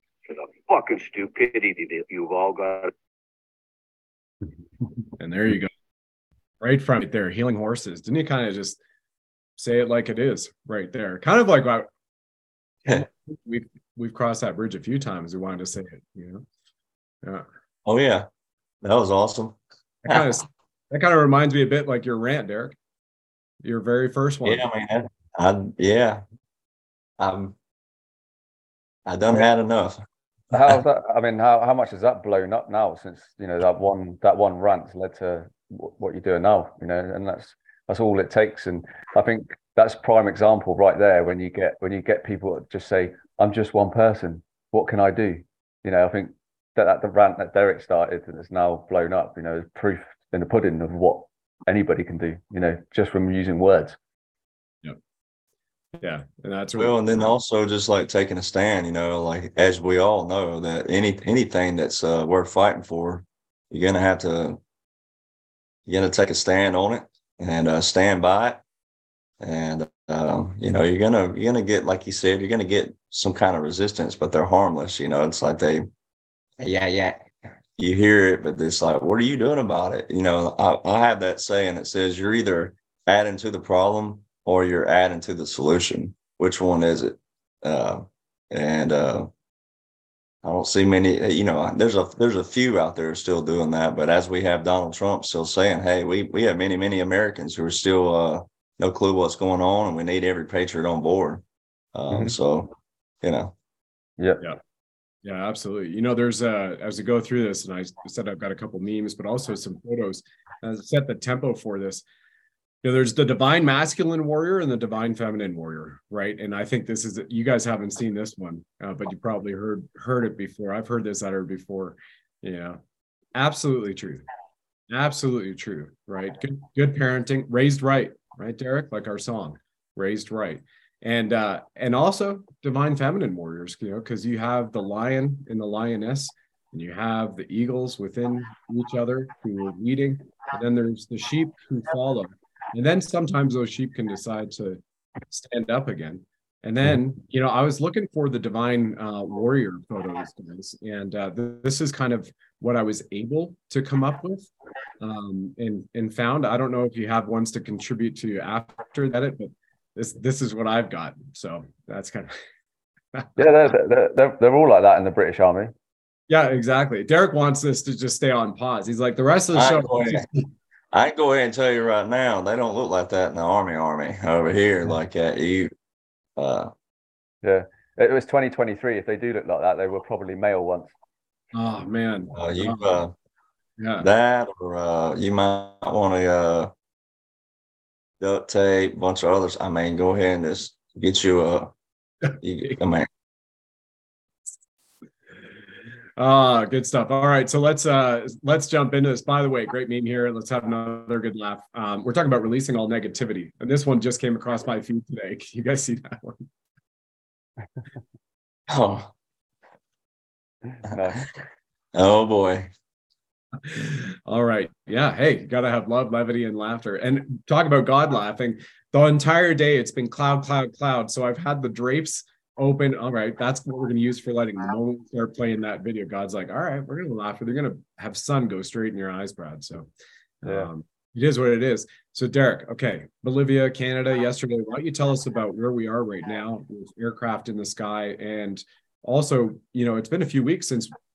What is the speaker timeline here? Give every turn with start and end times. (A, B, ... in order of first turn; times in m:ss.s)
0:00.3-0:02.9 A
0:05.2-0:05.7 B
0:06.6-0:08.8 B
0:09.6-0:11.9 B
0:12.9-0:16.4 B
0:17.8-0:18.2 C
0:18.8-0:19.6 C
0:20.0-0:22.8 B
0:23.6-0:24.6 B
0:24.4-0:26.2 C
0:27.2-0:27.6 C
0:29.0-0:30.0 C
0:30.5-0:54.0 D
0:56.0-0:57.3 B
0:56.8-1:04.6 C
1:05.8-1:08.6 C
1:09.4-1:15.8 C
1:16.6-1:17.2 C
1:17.8-1:29.3 C
1:30.4-1:41.4 C
1:41.9-1:42.7 C
1:42.1-1:42.4 D
1:43.2-1:43.5 C
1:45.2-1:52.0 B
1:52.8-2:02.8 B
2:03.3-2:04.2 B
2:04.9-2:34.5 B
2:35.0-2:42.3 B
2:43.4-2:45.7 D
2:46.3-2:50.4 B
2:49.5-2:50.3 C
2:50.9-2:55.7 C
2:56.4-2:56.7 C
2:57.4-3:00.9 D
3:01.5-3:03.0 B
3:02.3-3:03.1 C
3:03.8-3:04.0 B
3:04.0-3:06.7 C
3:08.2-3:11.7 C
3:12.4-3:13.1 C
3:16.2-3:26.4 B
3:28.7-3:29.1 C
3:30.8-3:31.2 D
3:30.9-3:31.3 C
3:31.9-3:32.7 C
3:33.6-3:49.9 B
3:50.4-4:00.9 B